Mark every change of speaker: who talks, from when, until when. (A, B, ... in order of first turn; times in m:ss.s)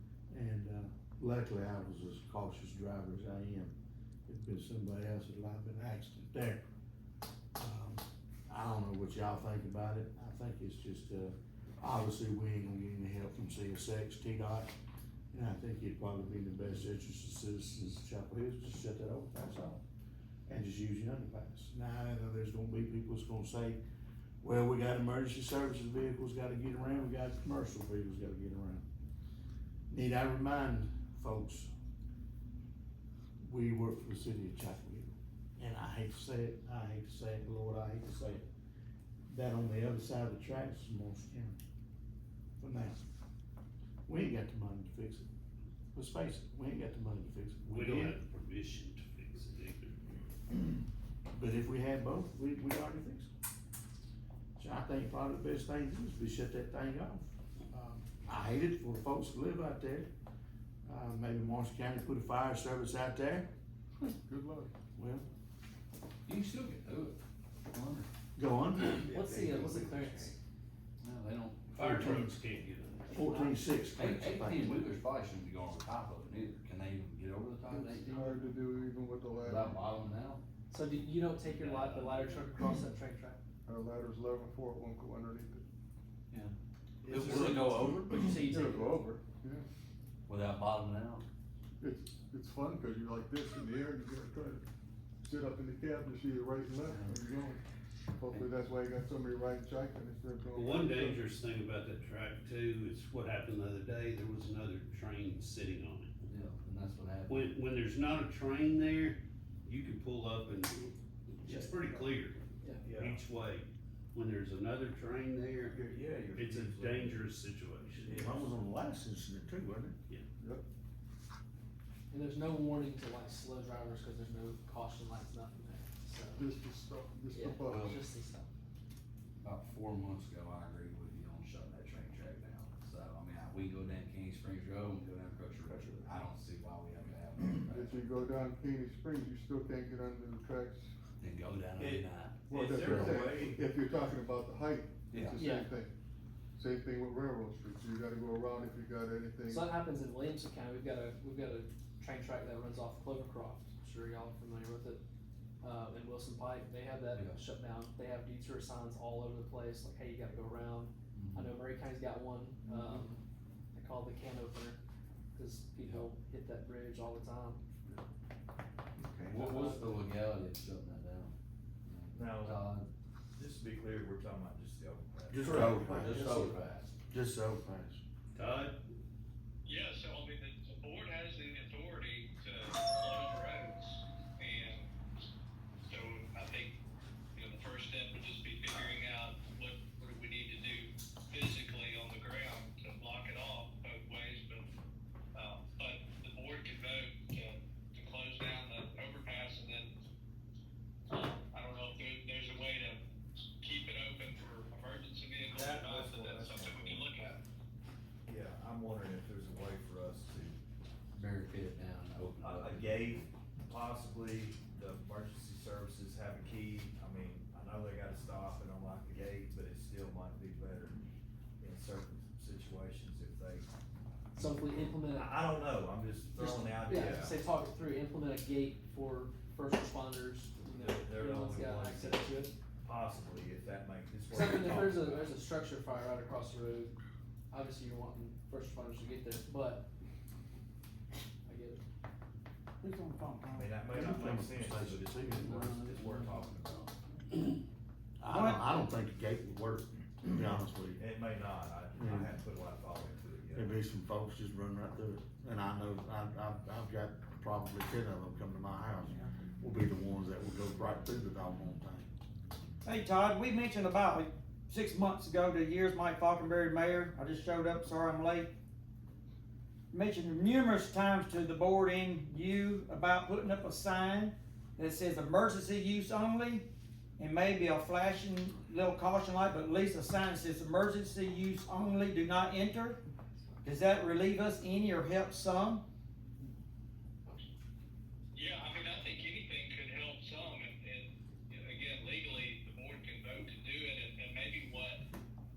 0:00.3-0:03.7 A
0:04.3-0:06.6 A
0:07.6-0:14.7 A
0:15.3-0:19.8 A
0:20.5-0:23.8 A
0:24.4-0:28.8 A
0:29.9-0:31.7 A
0:33.4-0:38.5 A
0:39.3-0:41.6 A
0:42.6-0:43.0 A
0:44.1-0:45.3 A
0:45.9-0:48.2 A
0:47.7-0:50.0 B
0:51.3-0:53.3 A
0:54.6-1:00.1 A
1:00.8-1:03.5 A
1:04.0-1:04.7 C
1:05.0-1:05.3 A
1:06.3-1:07.2 D
1:07.7-1:08.1 D
1:08.4-1:09.1 A
1:09.1-1:10.4 E
1:11.0-1:12.1 D
1:11.8-1:12.5 A
1:11.8-1:13.3 B
1:13.1-1:14.8 A
1:13.2-1:13.6 E
1:14.0-1:18.5 D
1:17.7-1:19.8 C
1:19.4-1:20.4 D
1:20.7-1:23.4 E
1:21.5-1:22.5 B
1:23.7-1:25.6 C
1:27.0-1:27.9 F
1:27.1-1:28.4 D
1:27.1-1:29.1 E
1:28.4-1:29.7 C
1:30.3-1:31.2 D
1:31.8-1:34.6 C
1:35.2-1:37.6 C
1:38.2-1:41.2 C
1:40.5-1:46.1 B
1:46.3-1:47.5 D
1:47.3-1:58.2 B
1:52.6-1:52.9 E
1:52.9-1:53.2 F
1:55.7-1:57.2 F
1:58.0-1:58.4 F
1:58.1-2:00.0 A
2:02.1-2:06.5 E
2:06.4-2:08.0 C
2:07.3-2:08.5 E
2:07.7-2:08.0 D
2:09.4-2:18.2 D
2:17.6-2:20.9 C
2:21.2-2:23.2 D
2:21.8-2:23.7 F
2:22.5-2:25.9 C
2:25.1-2:25.5 F
2:25.4-2:25.7 E
2:26.6-2:29.7 C
2:29.5-2:35.0 E
2:35.6-2:43.2 E
2:37.1-2:37.4 D
2:41.2-2:41.5 D
2:43.7-2:44.8 E
2:45.3-2:47.6 E
2:49.3-2:51.3 D
2:49.3-2:50.0 E
2:51.8-2:52.9 D
2:52.1-2:52.7 F
2:53.4-2:56.0 F
2:55.3-2:56.5 A
2:55.4-2:56.9 D
2:56.0-2:56.6 E
2:57.1-2:58.0 A
2:58.3-2:58.8 B
2:59.6-3:04.9 G
3:05.8-3:06.7 G
3:07.3-3:14.6 G
3:15.3-3:19.9 G
3:21.1-3:23.0 G
3:23.6-3:27.4 G
3:25.6-3:27.0 F
3:28.3-3:30.6 F
3:31.1-3:33.3 D
3:32.4-3:41.0 F
3:41.6-3:43.7 F
3:44.3-3:45.7 E
3:45.2-3:47.4 F
3:46.3-3:52.6 E
3:50.6-3:55.4 F
3:54.3-3:57.0 E
3:57.5-3:59.9 E
4:01.5-4:01.8 E
4:02.8-4:03.7 H
4:03.6-4:06.9 F
4:03.9-4:05.8 A
4:05.4-4:06.9 D
4:08.2-4:11.0 A
4:08.3-4:08.6 H
4:11.0-4:13.8 F
4:12.0-4:12.3 A
4:13.5-4:22.1 A
4:22.8-4:28.5 H
4:29.9-4:36.6 H
4:37.2-4:43.0 H
4:43.6-4:45.8 H
4:48.3-4:55.0 G